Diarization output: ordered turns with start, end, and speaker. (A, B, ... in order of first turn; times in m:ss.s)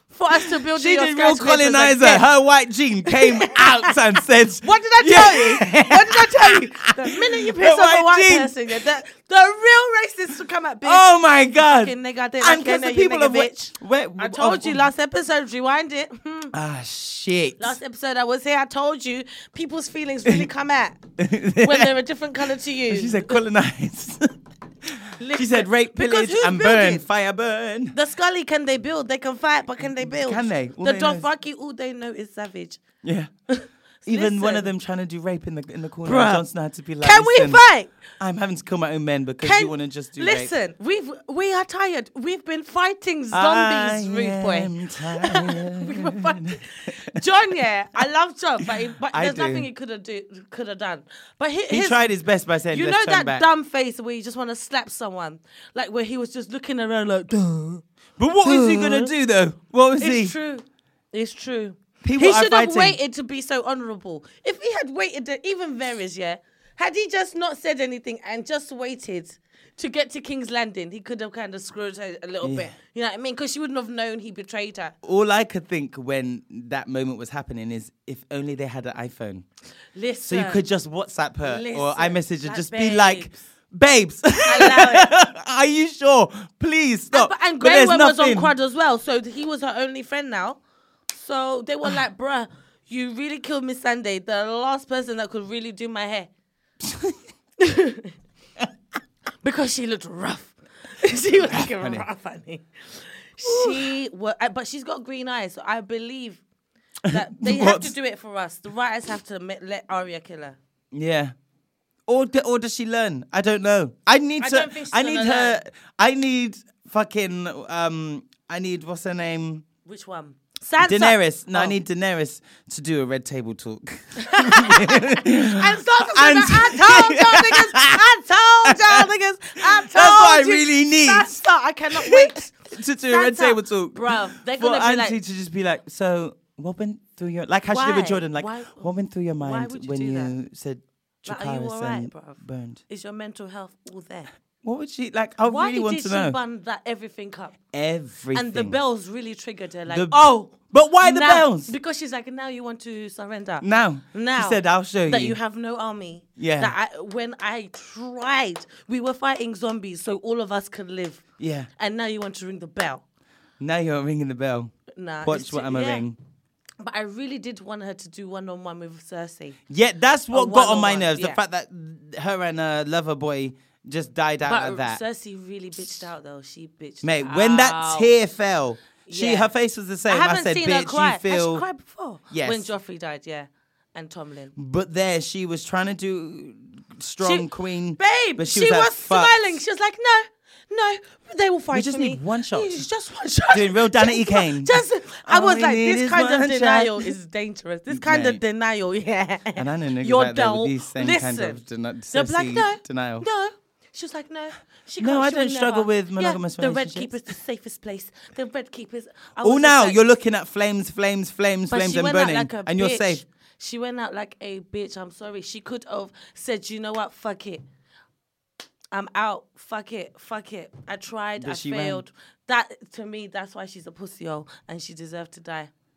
0:00.1-0:02.3 A
0:00.3-0:08.8 B
0:03.0-0:16.5 A
0:10.8-0:14.9 B
0:16.5-0:17.8 B
0:17.6-0:23.4 A
0:21.2-0:22.0 B
0:22.9-0:28.0 B
0:25.2-0:27.0 A
0:27.9-0:32.8 A
0:30.0-0:31.3 B
0:33.0-0:33.3 B
0:33.5-0:34.7 A
0:34.0-0:37.6 B
0:36.0-0:36.4 A
0:37.0-0:37.9 A
0:38.2-0:40.5 B
0:39.4-0:52.1 A
0:43.3-0:47.2 B
0:48.6-0:49.7 B
0:51.7-0:53.4 B
0:52.7-0:57.8 A
0:58.2-1:00.3 B
0:58.4-0:59.1 A
1:00.0-1:14.9 A
1:02.0-1:03.0 B
1:12.4-1:12.7 B
1:15.0-1:19.4 B
1:19.9-1:20.6 A
1:20.2-1:28.5 B
1:21.4-1:23.3 A
1:24.4-1:25.1 A
1:27.1-1:30.6 A
1:31.1-1:36.3 A
1:36.8-1:37.2 B
1:37.6-1:38.1 A
1:39.4-1:46.4 A
1:41.3-1:42.0 B
1:43.4-1:43.9 B
1:47.0-1:47.9 B
1:47.1-1:50.6 A
1:50.9-1:51.3 B
1:52.1-1:59.6 B
1:54.4-1:55.6 A
1:59.8-2:01.8 A
2:00.8-2:08.0 B
2:04.2-2:15.2 A
2:08.6-2:09.1 B
2:09.6-2:22.8 B
2:17.7-2:20.3 A
2:21.2-2:24.3 A
2:24.6-2:26.4 B
2:25.4-2:27.6 A
2:27.7-2:28.8 B
2:28.3-2:41.2 A
2:29.9-2:31.7 B
2:33.6-2:35.4 B
2:36.4-2:36.7 B
2:41.4-2:41.7 B
2:41.8-2:43.0 A
2:43.6-2:44.7 B
2:44.9-2:46.0 A
2:45.2-2:46.2 B
2:46.8-2:49.6 A
2:49.7-2:55.0 B
2:50.3-2:51.4 A
2:54.4-2:58.1 A
2:57.0-3:01.6 B
2:59.0-2:59.5 A
3:00.1-3:04.5 A
3:02.3-3:02.7 B
3:04.6-3:09.6 B
3:07.2-3:30.0 A
3:11.7-3:12.8 B
3:13.5-3:17.1 B
3:17.9-3:18.4 B
3:19.6-3:23.3 B
3:25.0-3:27.2 B
3:29.4-3:33.2 B
3:31.7-3:37.6 A
3:38.9-3:45.7 A
3:41.4-3:42.0 B